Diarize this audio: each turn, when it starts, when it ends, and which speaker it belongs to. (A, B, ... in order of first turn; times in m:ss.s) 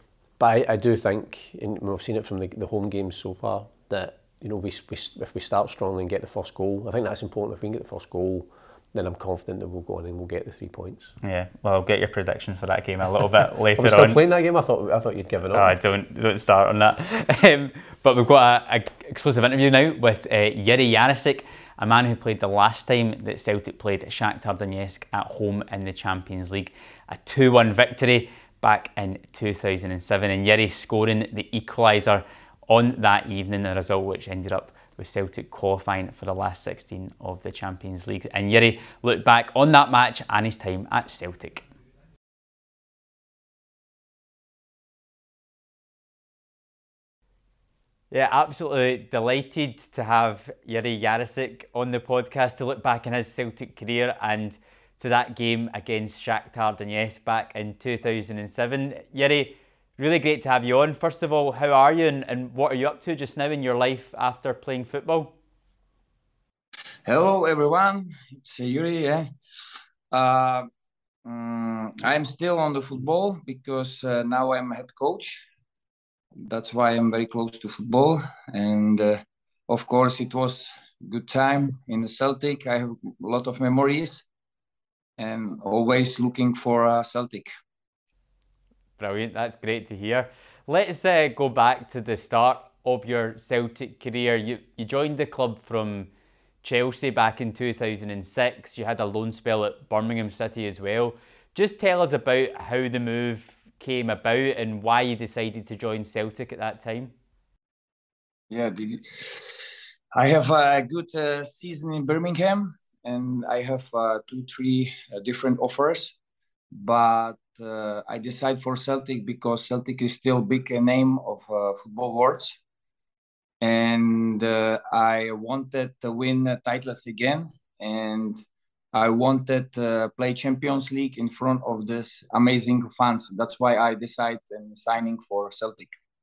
0:00.4-0:11.1 A
0:11.2-0:14.2 B
0:13.8-0:15.7 A
0:15.5-0:41.6 B
0:48.1-1:05.3 B
1:07.0-1:09.3 C
1:10.1-1:10.7 C
1:11.2-1:15.4 C
1:16.4-1:24.2 C
1:25.2-1:27.5 C
1:29.0-1:36.1 B
1:36.6-1:47.1 B
1:48.5-1:49.0 C
1:50.1-1:56.1 C
1:56.7-2:02.6 C
2:03.6-2:08.4 C
2:08.9-2:15.9 C